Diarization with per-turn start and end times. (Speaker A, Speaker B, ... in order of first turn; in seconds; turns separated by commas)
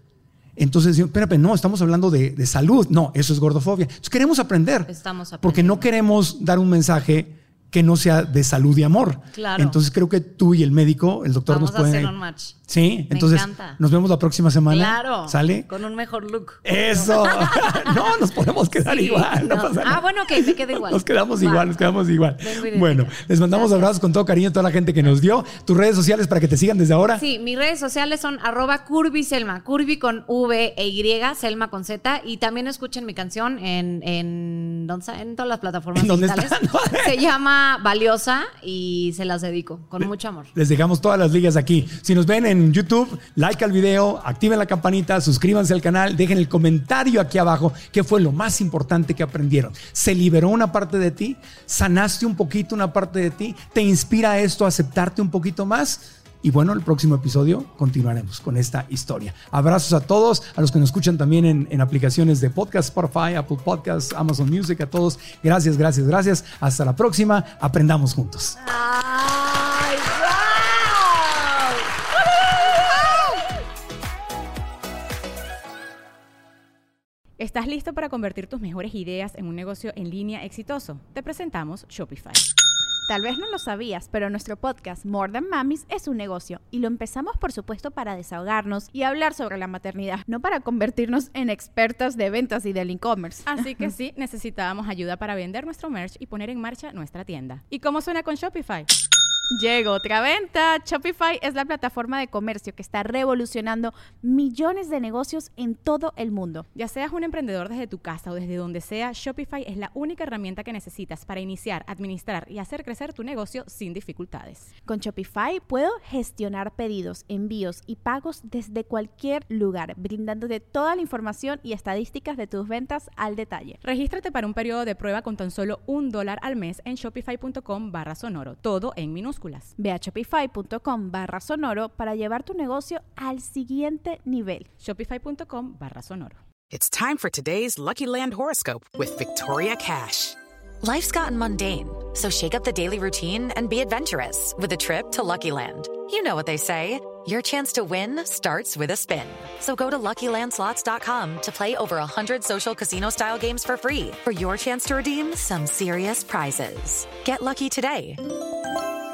Speaker A: 0.6-4.9, Speaker B: 4.9-5.9, Speaker A: 5.4-12.1, Speaker B: 9.3-9.8, Speaker B: 11.5-12.6, Speaker A: 12.7-15.7, Speaker B: 13.1-13.8, Speaker B: 14.7-18.2, Speaker A: 16.6-27.2, Speaker B: 18.8-21.8, Speaker B: 22.4-24.0, Speaker B: 27.1-40.5, Speaker A: 35.9-37.2, Speaker A: 40.5-68.6, Speaker B: 68.6-71.9, Speaker B: 72.4-73.0, Speaker C: 77.4-82.4, Speaker D: 83.1-93.9, Speaker C: 93.5-98.9, Speaker D: 99.5-106.7, Speaker C: 106.7-114.7, Speaker D: 114.9-123.8, Speaker C: 123.8-129.7, Speaker D: 129.8-134.7, Speaker C: 134.8-136.4, Speaker E: 136.7-140.4, Speaker F: 140.8-158.2